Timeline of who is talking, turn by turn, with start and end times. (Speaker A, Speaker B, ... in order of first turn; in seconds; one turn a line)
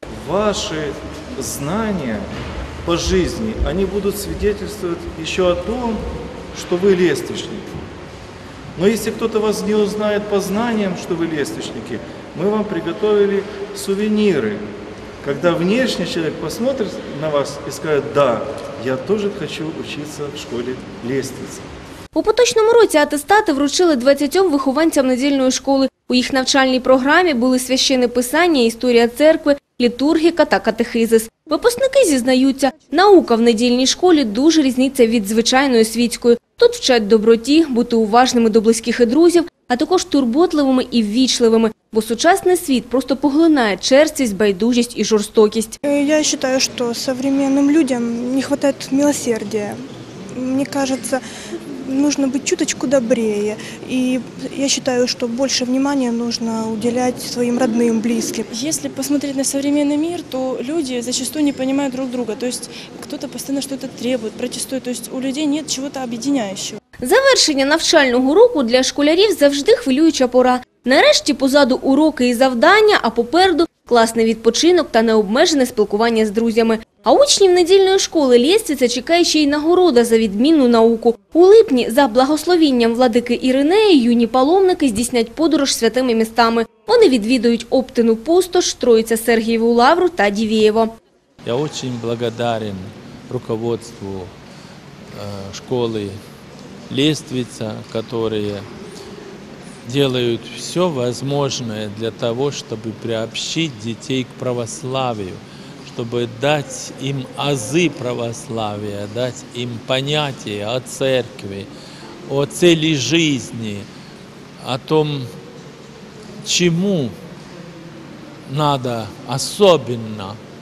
Speaker A: 0.1-2.3
Speaker A: 2.9-7.7
Speaker A: 8.8-14.7
Speaker A: 15.2-21.7
Speaker B: 22.1-45.8
Speaker C: 45.9-49.8
Speaker C: 50.3-51.2
Speaker C: 51.9-58.5
Speaker D: 58.5-66.8
Speaker B: 67.0-90.9
Speaker E: 91.4-94.3
Speaker E: 95.1-96.2
Speaker E: 96.9-98.7
Speaker E: 99.8-111.7
Speaker E: 112.3-113.9
Speaker E: 114.6-115.3
Speaker E: 116.4-117.1
Speaker E: 118.5-120.4